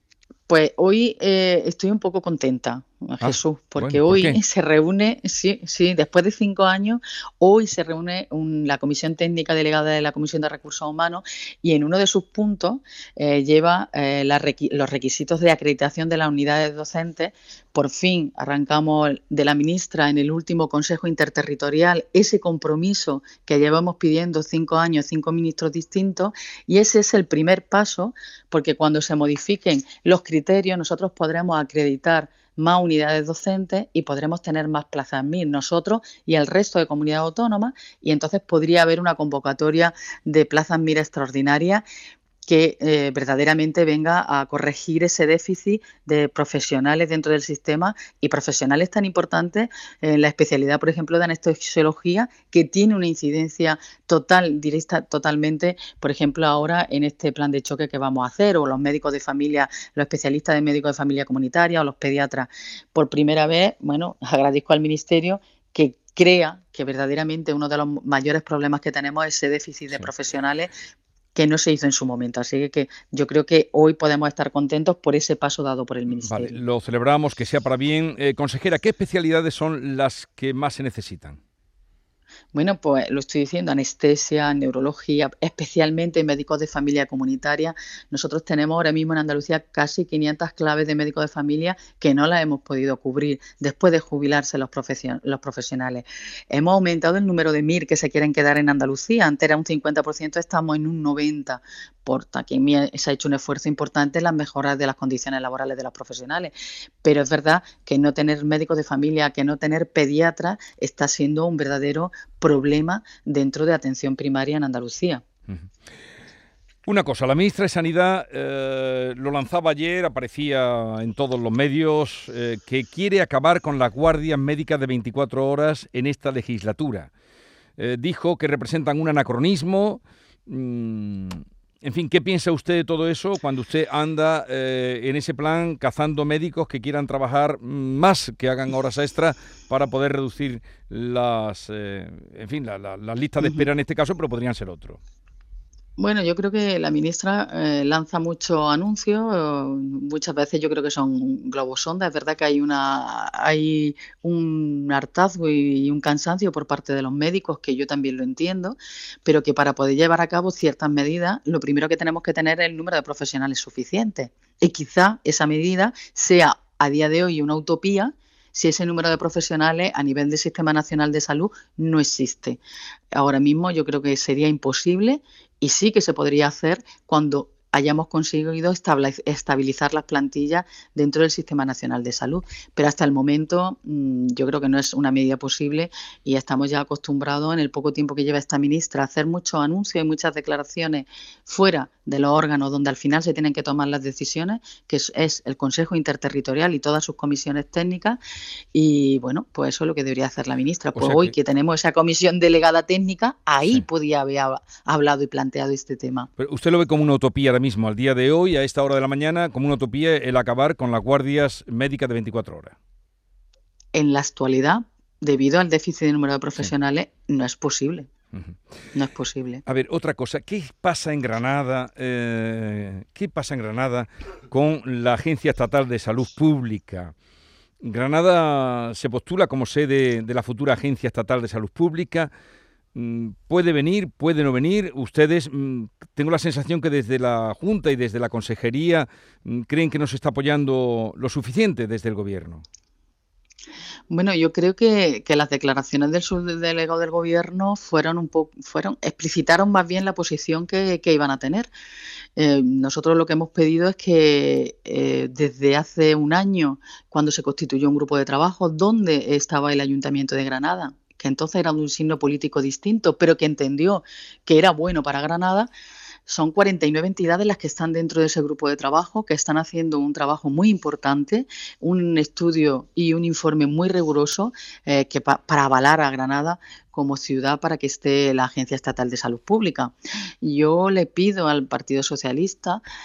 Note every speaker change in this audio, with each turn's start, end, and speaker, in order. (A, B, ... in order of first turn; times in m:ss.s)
0:00.5-0:41.8 A
0:03.2-0:04.4 B
0:42.4-1:10.7 A
1:11.3-1:16.6 A
1:16.1-1:21.4 B
1:22.5-1:55.2 A
1:56.8-2:07.1 B
2:07.8-2:25.0 B
2:23.4-2:23.7 A
2:26.0-2:52.6 A
2:53.1-3:18.2 A
3:18.7-3:26.3 A
3:20.9-3:21.3 B
3:26.4-3:32.7 B
3:33.9-3:38.1 A
3:38.9-3:39.6 A
3:39.7-3:47.1 B
3:47.8-3:52.3 B
3:52.9-4:02.6 B
4:04.1-4:11.7 A
4:12.4-4:25.7 A
4:26.3-4:42.8 A